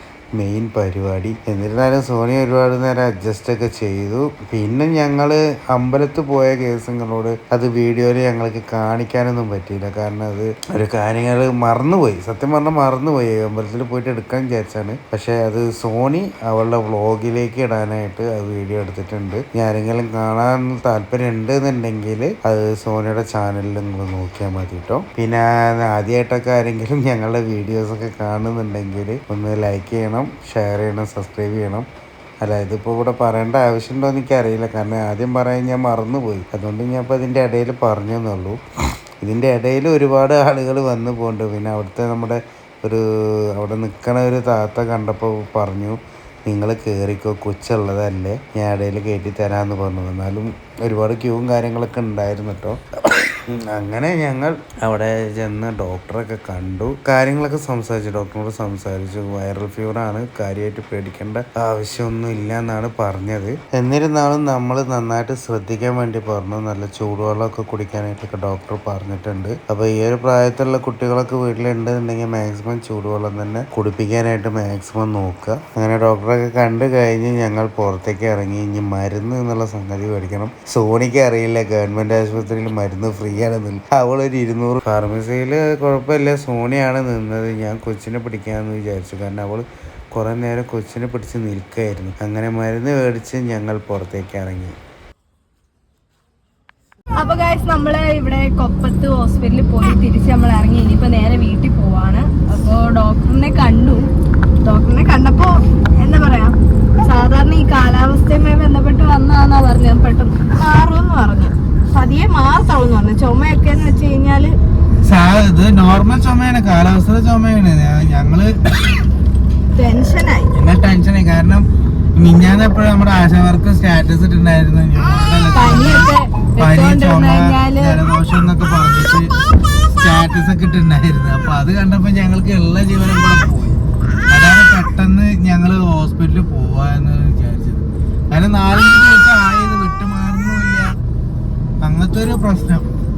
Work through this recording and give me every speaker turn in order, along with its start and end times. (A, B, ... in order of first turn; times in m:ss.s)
0:00.4-0:31.9 A
0:32.4-0:38.6 A
0:39.2-1:34.7 A
1:37.2-1:44.0 B
1:44.6-1:46.5 B
1:47.0-1:54.5 B
1:55.1-1:58.9 C
1:59.7-2:00.5 B
2:00.5-2:01.6 C
2:02.2-2:09.3 C
2:05.5-2:08.0 B
2:10.0-2:13.8 C
2:14.3-2:20.9 C
2:21.8-2:22.9 C